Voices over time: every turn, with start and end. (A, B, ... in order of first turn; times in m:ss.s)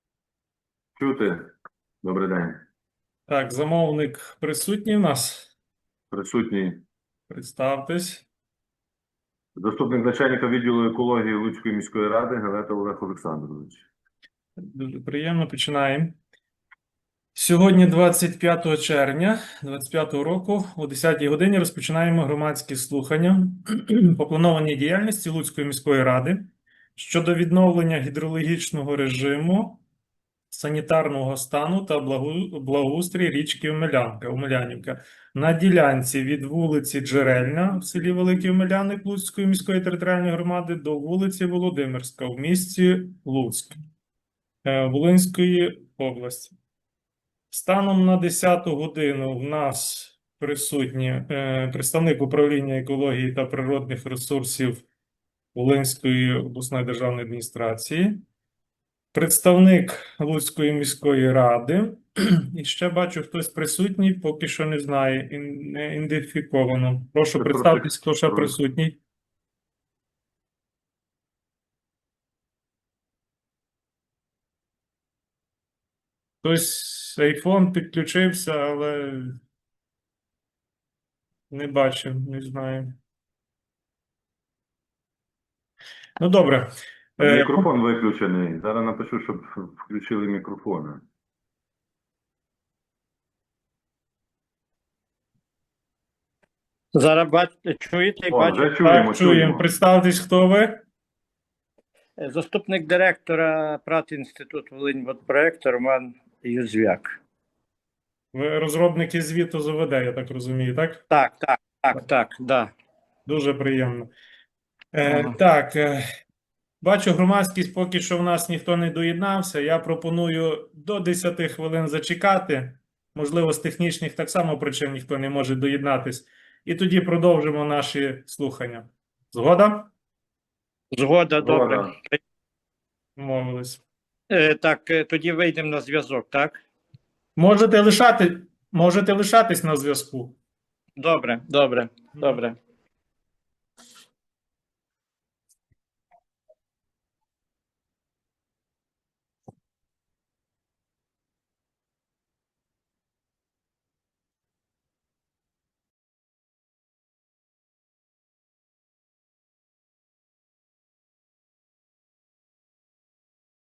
0:01.0-0:01.5 A
0:02.0-0:02.6 A
0:03.3-0:05.5 B
0:06.1-0:06.8 A
0:07.3-0:08.2 B
0:09.6-0:13.9 A
0:14.6-0:16.2 B
0:17.4-0:29.8 B
0:30.5-0:43.8 B
0:44.6-0:46.6 B
0:47.5-0:54.8 B
0:55.6-0:58.2 B
0:59.1-1:09.0 B
1:07.4-1:08.6 A
1:16.4-1:19.4 B
1:21.5-1:23.0 B
1:26.2-1:27.7 B
1:27.2-1:31.0 A
1:37.0-1:38.7 C
1:38.3-1:39.6 A
1:38.8-1:40.8 B
1:42.2-1:47.2 C
1:48.3-1:51.0 B
1:51.1-1:52.7 C
1:53.3-1:54.1 B
1:54.9-1:56.0 B
1:55.0-1:55.4 C
1:56.8-2:09.9 B
2:11.0-2:12.2 C
2:11.4-2:11.9 A
2:13.2-2:13.8 B
2:14.3-2:16.6 C
2:17.4-2:20.4 B
2:21.0-2:22.6 C